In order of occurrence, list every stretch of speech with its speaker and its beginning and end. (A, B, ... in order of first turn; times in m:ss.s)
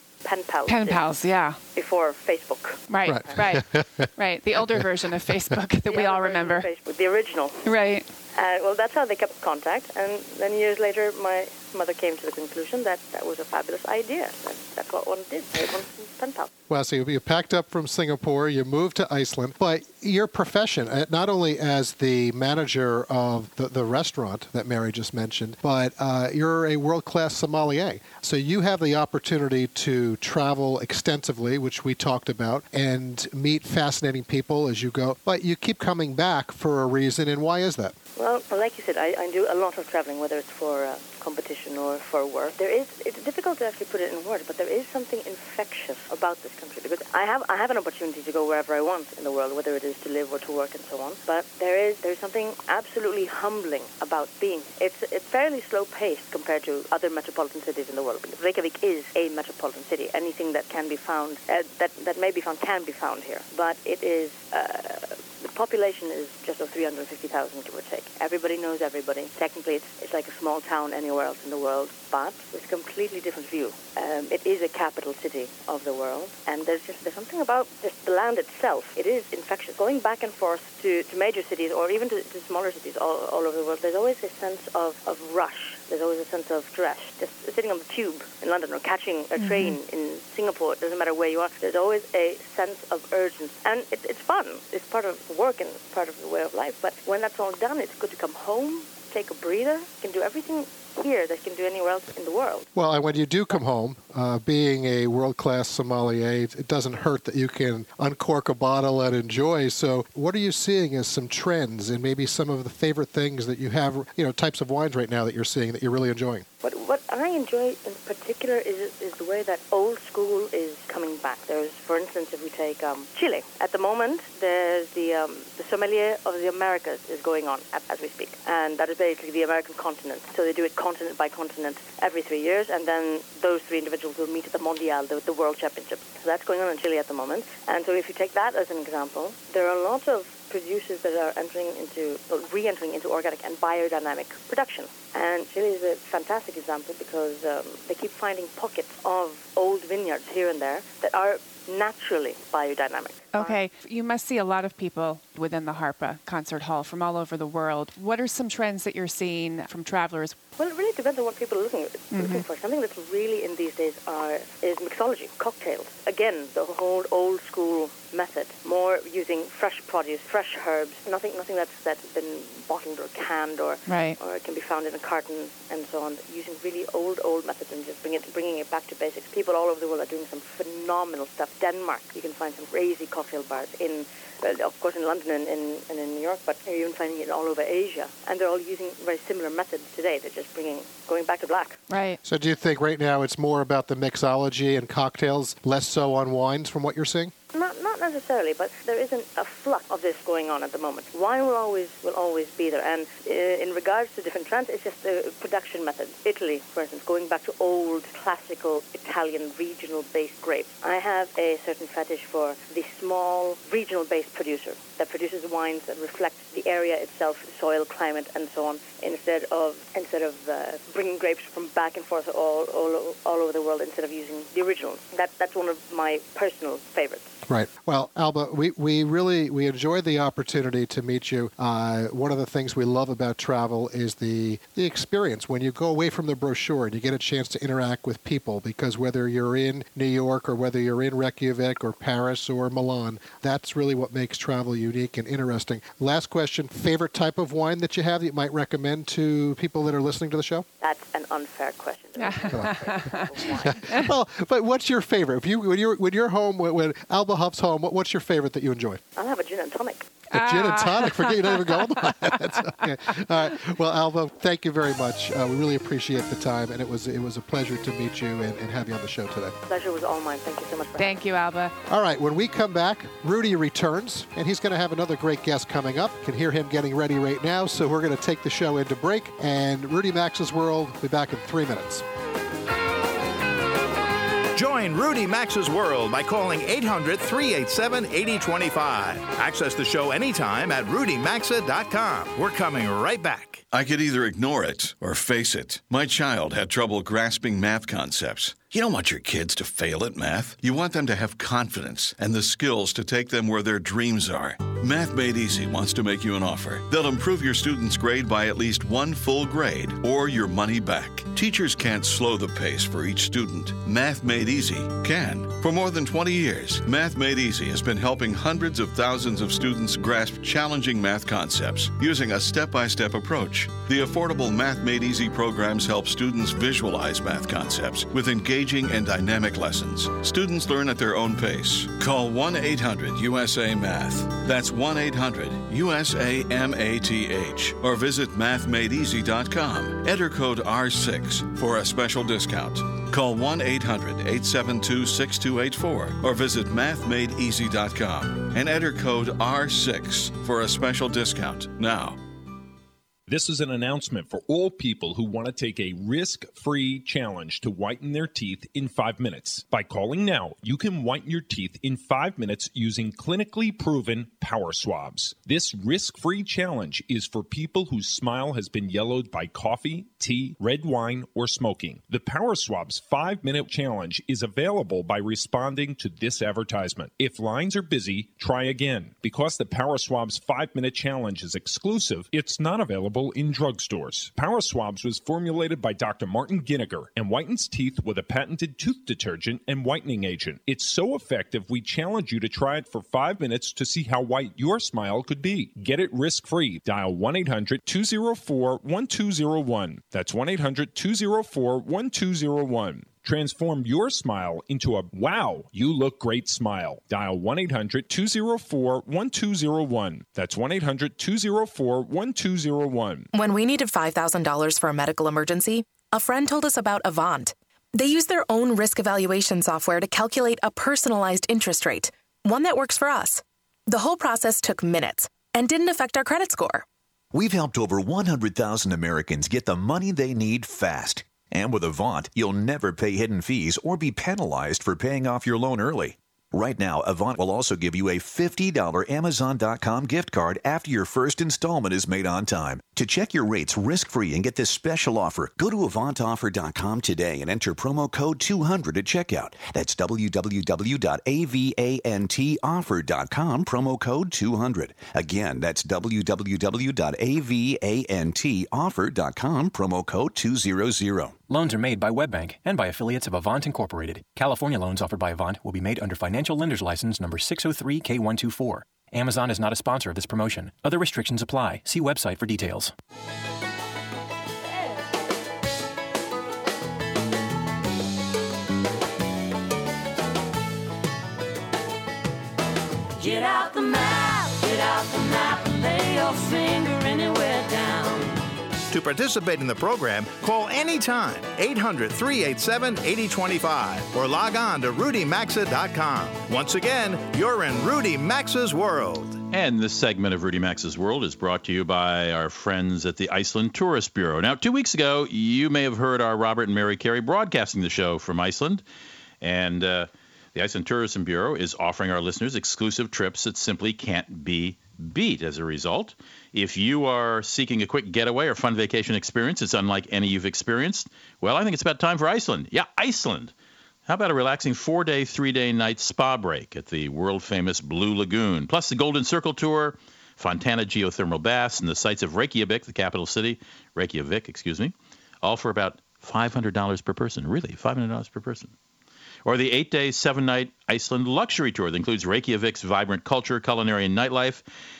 0:00.2-0:01.1 A
0:00.7-0:01.6 B
0:01.7-0:03.5 A
0:02.9-0:06.7 B
0:03.0-0:04.1 C
0:05.9-0:07.8 A
0:07.6-0:08.1 B
0:08.3-0:16.5 A
0:16.7-0:37.9 C
0:38.2-1:42.7 A
1:29.4-1:29.7 B
1:42.7-1:56.4 C
1:56.6-2:33.6 A
2:33.3-2:40.4 B
2:40.6-3:11.8 A
2:42.1-2:42.4 B
2:53.9-2:54.2 B
3:11.9-3:12.2 B
3:12.2-3:17.3 C
3:17.5-3:47.4 A
3:47.5-4:10.6 C
4:10.8-4:13.9 A
4:12.2-4:13.3 B
4:13.6-4:19.0 C
4:19.2-4:20.1 A
4:20.3-4:29.5 C
4:20.3-4:22.1 B
4:29.6-4:31.2 A
4:31.0-4:31.7 B
4:31.9-4:42.0 C
4:44.5-4:53.6 D
4:53.7-5:52.2 E
5:53.3-6:53.3 F
6:53.3-7:06.8 G
7:07.3-7:41.4 H
7:41.5-7:52.9 I
8:03.2-8:08.4 J
8:08.9-8:19.4 D
8:19.5-8:28.8 K
8:29.4-8:43.5 K
8:44.1-8:58.7 K
8:59.4-9:04.6 K